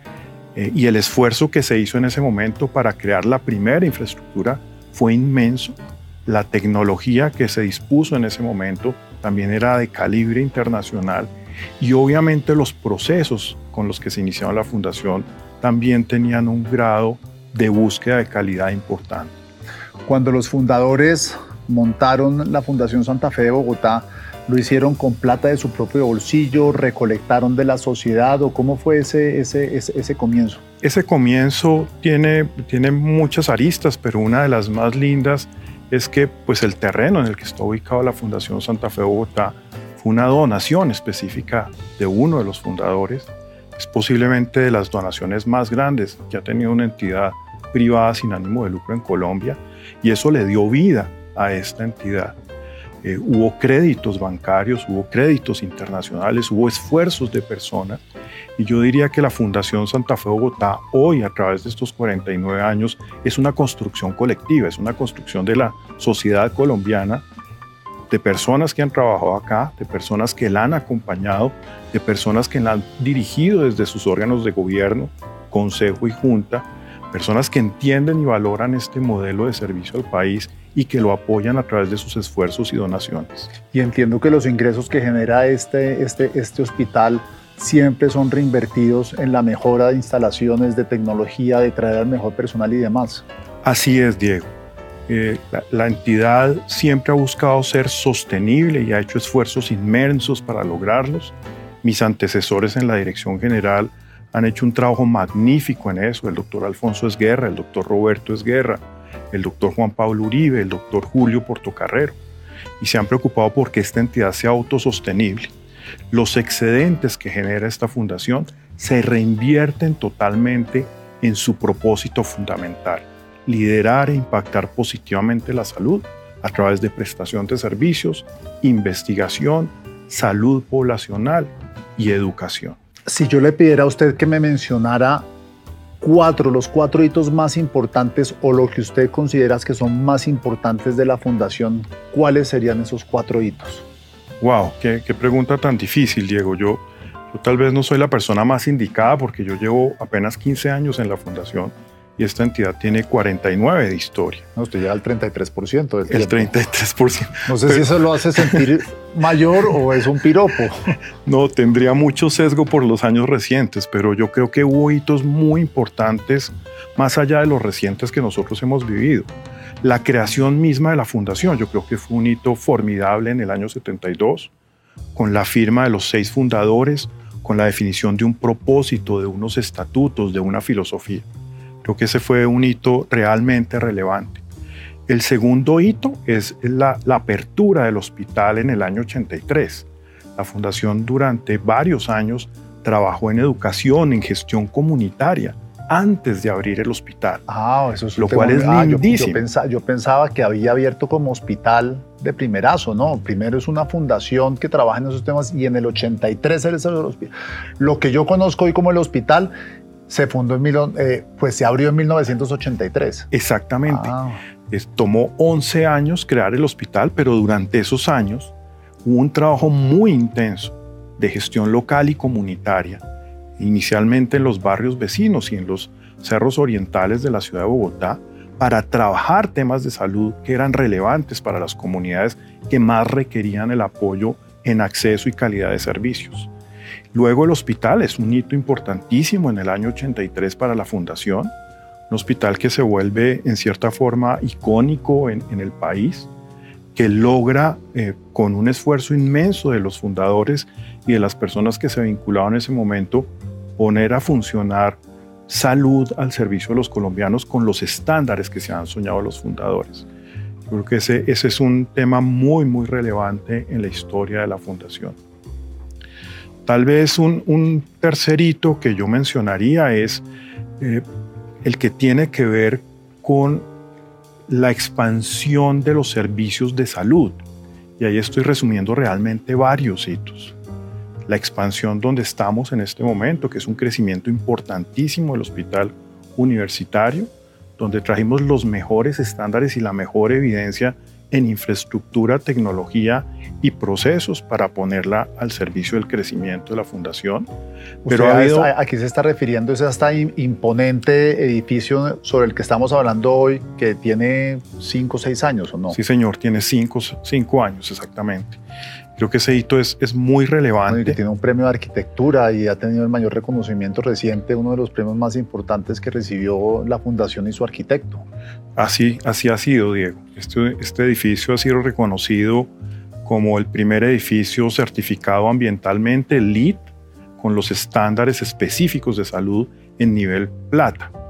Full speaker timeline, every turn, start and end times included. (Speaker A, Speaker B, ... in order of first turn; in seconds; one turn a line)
Speaker A: 0.6-19.4
Speaker B: 20.1-30.6
Speaker A: 30.8-52.4
Speaker A: 53.0-58.0
Speaker A: 58.6-67.2
Speaker A: 68.1-83.5
Speaker B: 83.7-93.2
Speaker A: 93.6-94.5
Speaker A: 95.1-112.2
Speaker A: 112.8-115.5
Speaker A: 116.1-132.8
Speaker B: 133.1-135.3
Speaker B: 136.0-143.8
Speaker A: 144.4-154.5
Speaker B: 154.6-156.5
Speaker A: 156.1-158.6
Speaker B: 157.5-160.9
Speaker A: 161.2-169.3
Speaker A: 169.8-174.5
Speaker A: 175.1-181.3
Speaker A: 181.8-184.4
Speaker A: 185.1-197.4
Speaker B: 197.5-209.5
Speaker A: 198.2-199.4
Speaker B: 210.1-213.3
Speaker A: 213.3-214.1
Speaker B: 213.9-214.4
Speaker A: 214.7-218.5
Speaker A: 219.1-223.0
Speaker A: 223.6-236.5
Speaker A: 237.1-241.5
Speaker A: 242.1-246.3
Speaker A: 246.9-260.1
Speaker A: 260.7-265.2
Speaker A: 266.6-270.2
Speaker A: 270.8-271.0
Speaker A: 271.6-273.7
Speaker A: 274.5-277.4
Speaker A: 278.0-280.6
Speaker A: 281.3-297.5
Speaker B: 298.1-306.0
Speaker A: 298.1-298.7
Speaker A: 305.9-308.6
Speaker A: 309.2-311.2
Speaker B: 310.9-318.2
Speaker A: 318.8-322.7
Speaker A: 323.2-326.9
Speaker A: 327.4-331.1